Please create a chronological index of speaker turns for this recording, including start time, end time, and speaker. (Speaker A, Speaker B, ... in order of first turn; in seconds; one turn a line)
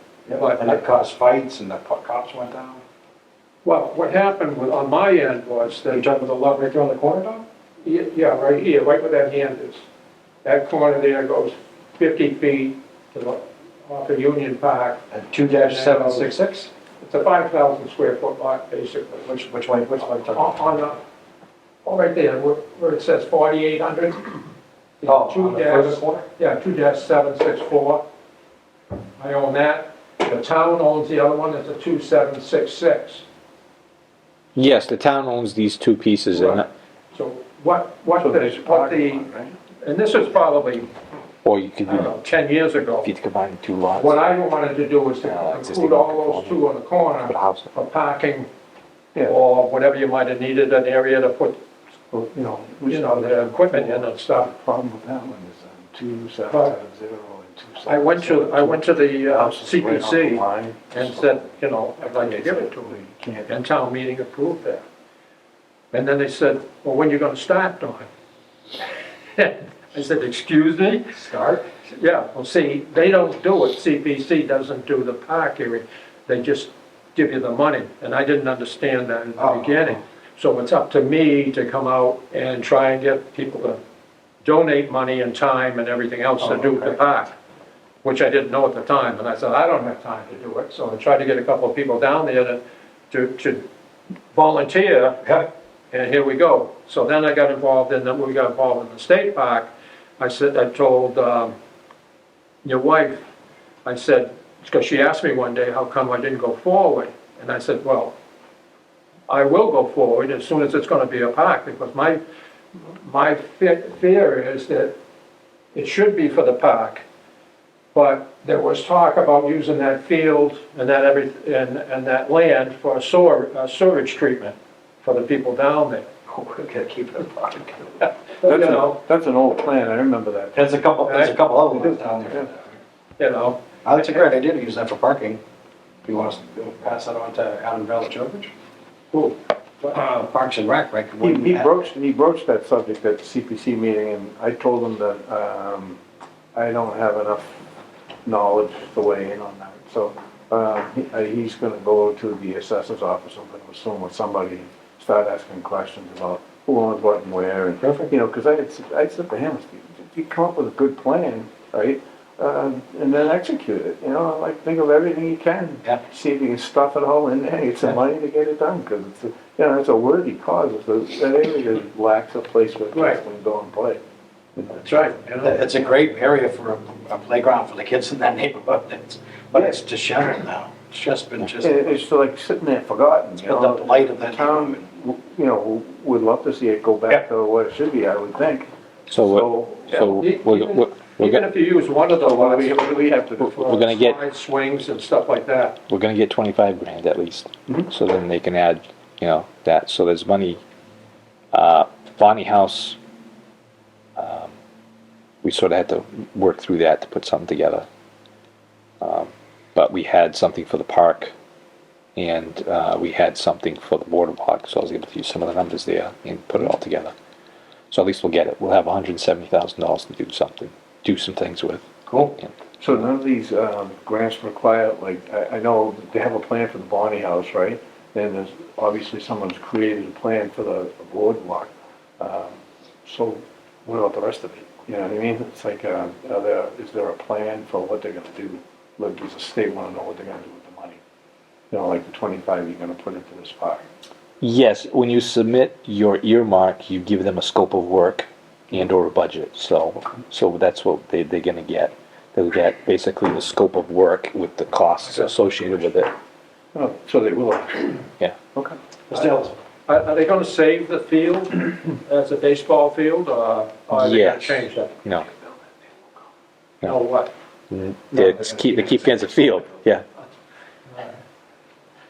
Speaker A: 0.2-2.8
Speaker B: 0.3-0.8
Speaker B: 3.6-6.0
Speaker A: 5.9-7.4
Speaker B: 7.8-9.8
Speaker B: 10.4-15.0
Speaker A: 15.1-16.7
Speaker B: 15.6-16.3
Speaker B: 17.0-19.3
Speaker A: 19.2-20.6
Speaker B: 20.0-21.0
Speaker B: 21.8-24.4
Speaker B: 25.0-28.0
Speaker A: 25.0-26.2
Speaker B: 29.2-33.2
Speaker C: 34.5-36.7
Speaker B: 36.3-40.9
Speaker D: 38.2-39.6
Speaker C: 41.4-42.2
Speaker B: 41.9-43.1
Speaker C: 43.0-44.2
Speaker B: 43.9-48.5
Speaker C: 45.2-46.7
Speaker C: 47.2-47.7
Speaker B: 49.2-51.6
Speaker D: 52.1-63.5
Speaker B: 52.8-54.5
Speaker B: 56.5-56.8
Speaker B: 57.8-64.8
Speaker B: 65.9-68.1
Speaker B: 69.3-71.1
Speaker A: 71.1-71.6
Speaker B: 71.8-83.8
Speaker A: 79.4-80.0
Speaker B: 84.4-87.3
Speaker A: 86.4-87.0
Speaker B: 88.0-93.7
Speaker B: 94.3-95.2
Speaker B: 95.9-99.7
Speaker B: 100.2-101.5
Speaker B: 102.6-103.2
Speaker B: 103.8-108.1
Speaker B: 109.3-112.2
Speaker B: 113.0-115.0
Speaker B: 115.7-117.0
Speaker B: 117.9-126.1
Speaker A: 126.3-127.9
Speaker D: 128.4-130.6
Speaker B: 128.4-129.0
Speaker A: 130.5-132.7
Speaker B: 131.0-131.4
Speaker B: 133.2-134.2
Speaker A: 133.8-135.4
Speaker A: 136.0-138.5
Speaker B: 139.1-139.9
Speaker A: 139.8-141.8
Speaker D: 141.2-146.0
Speaker D: 146.5-147.7
Speaker D: 148.2-174.0
Speaker A: 157.8-158.1
Speaker B: 172.9-173.2
Speaker D: 174.6-175.0
Speaker B: 174.8-175.6
Speaker A: 175.4-181.9
Speaker D: 181.6-188.7
Speaker A: 183.4-184.8
Speaker C: 189.1-191.4
Speaker D: 189.3-190.1
Speaker B: 190.1-195.8
Speaker D: 192.2-193.5
Speaker C: 193.4-194.2
Speaker C: 195.9-200.6
Speaker C: 201.5-203.0
Speaker C: 204.2-204.5
Speaker C: 205.4-207.9
Speaker C: 209.0-211.3
Speaker C: 212.2-217.1
Speaker C: 217.9-223.0
Speaker A: 222.1-222.3
Speaker D: 222.8-241.0
Speaker D: 241.7-243.8
Speaker C: 244.4-256.1
Speaker D: 256.7-258.0
Speaker A: 259.1-259.6
Speaker B: 259.9-264.9
Speaker C: 263.9-265.3
Speaker B: 266.8-267.3
Speaker C: 267.7-270.0
Speaker A: 268.1-269.3